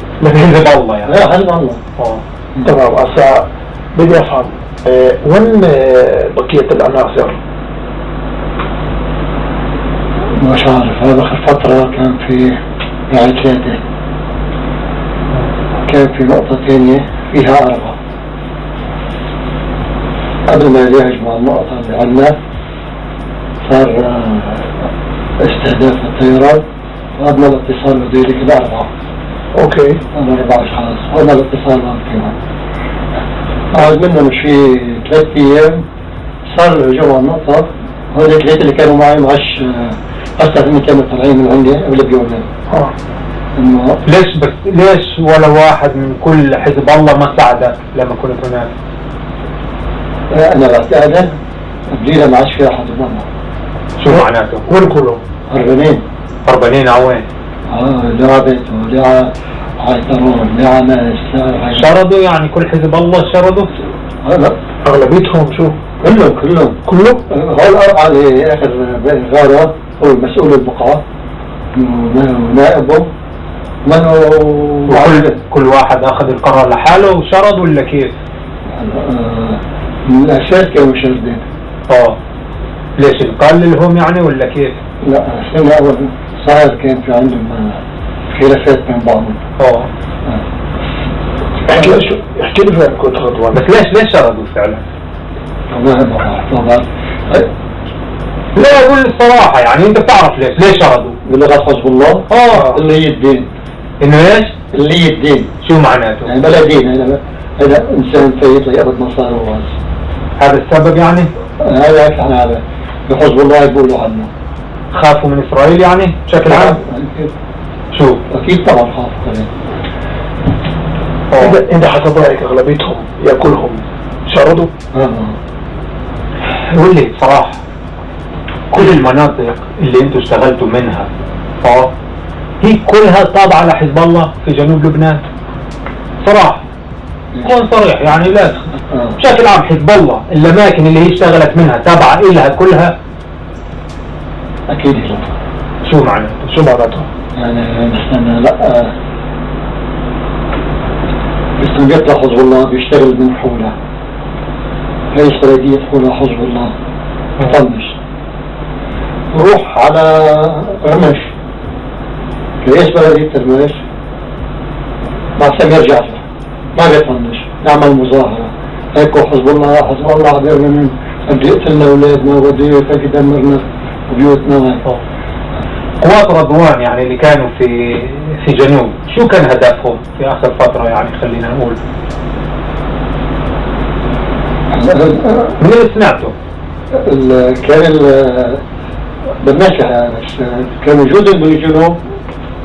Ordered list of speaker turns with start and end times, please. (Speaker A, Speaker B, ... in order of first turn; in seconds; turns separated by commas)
Speaker A: 0.2-1.3, Speaker B: 1.0-1.8, Speaker A: 2.0-2.2, Speaker B: 2.5-2.8, Speaker C: 2.7-7.4, Speaker B: 10.4-12.6, Speaker B: 13.1-13.8, Speaker B: 15.8-18.0, Speaker B: 20.4-22.3, Speaker B: 23.6-24.8, Speaker B: 25.4-26.6, Speaker B: 27.1-28.9, Speaker C: 29.6-30.0, Speaker B: 30.1-32.4, Speaker B: 33.7-35.8, Speaker B: 36.5-42.5, Speaker B: 43.5-44.0, Speaker A: 44.0-48.8, Speaker B: 50.3-51.4, Speaker B: 51.9-53.3, Speaker A: 54.0-54.7, Speaker C: 54.1-55.2, Speaker B: 55.5-56.0, Speaker A: 56.5-57.3, Speaker B: 57.7-61.9, Speaker A: 61.7-63.7, Speaker B: 64.2-64.6, Speaker C: 64.8-65.8, Speaker B: 66.0-71.0, Speaker C: 66.8-67.2, Speaker B: 71.7-73.1, Speaker B: 73.8-75.4, Speaker A: 74.9-78.1, Speaker B: 78.7-81.4, Speaker A: 81.9-82.2, Speaker A: 83.0-84.8, Speaker B: 85.0-87.8, Speaker B: 88.3-89.4, Speaker A: 89.6-89.9, Speaker C: 91.7-93.6, Speaker A: 93.5-94.8, Speaker B: 95.7-97.5, Speaker A: 98.5-101.2, Speaker B: 101.2-103.5, Speaker A: 102.3-102.7, Speaker A: 104.0-104.5, Speaker B: 104.7-105.5, Speaker A: 105.6-106.3, Speaker B: 106.2-109.7, Speaker A: 110.4-111.3, Speaker B: 111.6-114.3, Speaker A: 114.9-116.7, Speaker B: 116.4-117.3, Speaker A: 117.9-118.2, Speaker B: 118.3-119.5, Speaker A: 121.3-121.6, Speaker C: 121.5-124.7, Speaker B: 124.9-125.4, Speaker A: 126.7-127.6, Speaker A: 128.7-131.1, Speaker A: 131.6-131.9, Speaker A: 132.6-135.2, Speaker A: 136.2-136.6, Speaker A: 137.4-138.6, Speaker B: 138.9-139.2, Speaker A: 139.2-142.9, Speaker B: 144.7-145.3, Speaker A: 145.8-146.5, Speaker C: 146.5-147.1, Speaker B: 147.3-148.9, Speaker B: 151.6-153.7, Speaker B: 155.1-156.7, Speaker B: 157.4-157.9, Speaker B: 159.3-161.3, Speaker B: 162.6-163.8, Speaker B: 165.4-166.2, Speaker B: 166.7-174.8, Speaker A: 176.0-181.8, Speaker B: 184.7-185.6, Speaker A: 185.6-186.3, Speaker B: 187.0-188.6, Speaker B: 189.4-192.0